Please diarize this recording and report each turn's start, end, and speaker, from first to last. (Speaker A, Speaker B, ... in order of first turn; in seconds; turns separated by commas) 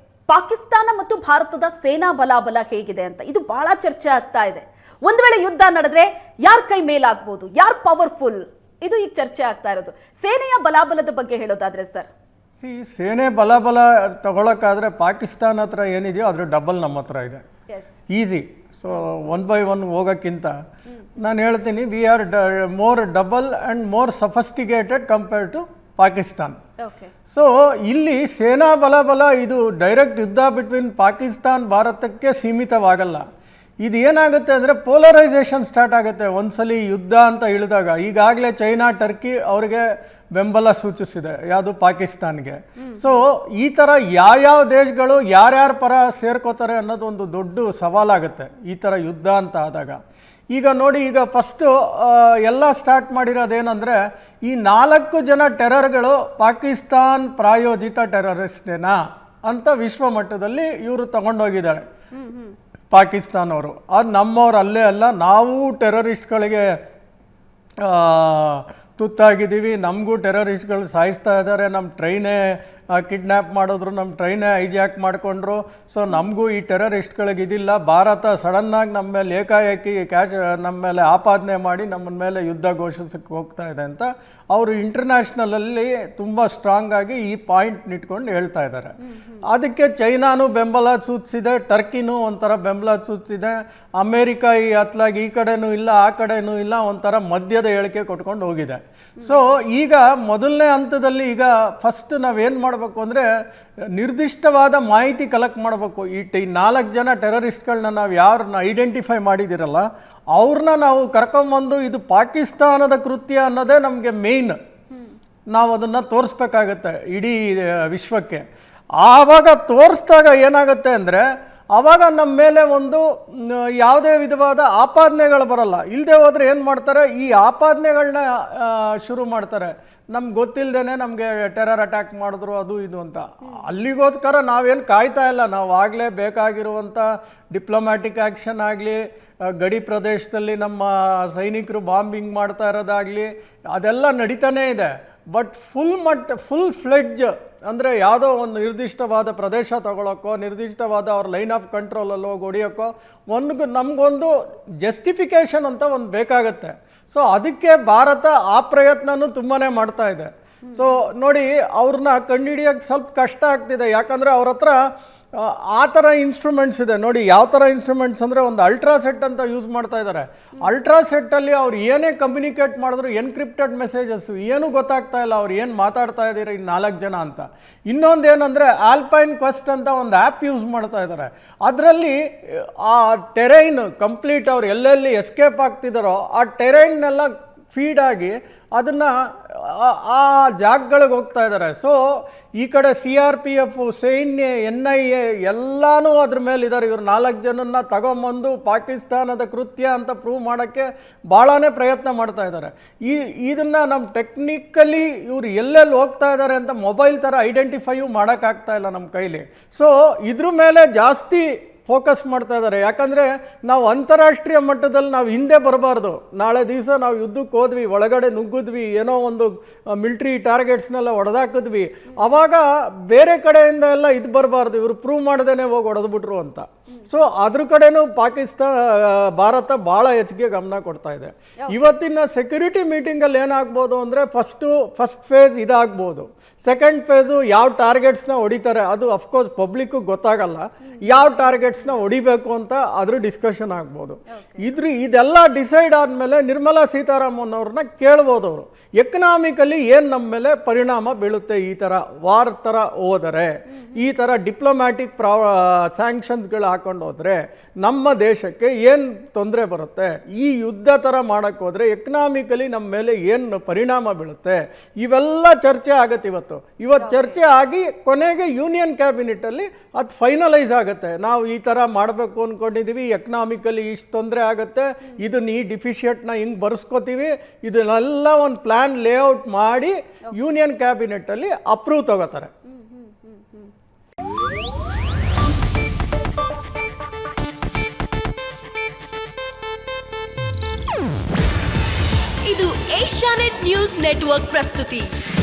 Speaker A: 0.3-12.1, Speaker B: 12.6-17.4, Speaker B: 18.1-20.5, Speaker B: 21.2-26.6, Speaker A: 26.8-27.1, Speaker B: 27.3-33.2, Speaker B: 33.8-50.0, Speaker A: 42.8-43.2, Speaker B: 50.5-61.8, Speaker A: 62.2-62.5, Speaker B: 62.9-66.7, Speaker B: 67.8-89.0, Speaker B: 89.5-103.3, Speaker B: 104.0-114.6, Speaker B: 115.5-118.4, Speaker B: 119.0-164.8, Speaker A: 160.7-160.9, Speaker B: 165.3-192.0, Speaker B: 192.6-282.5, Speaker A: 244.3-244.7, Speaker A: 267.0-267.4, Speaker A: 282.7-283.7, Speaker C: 292.4-295.1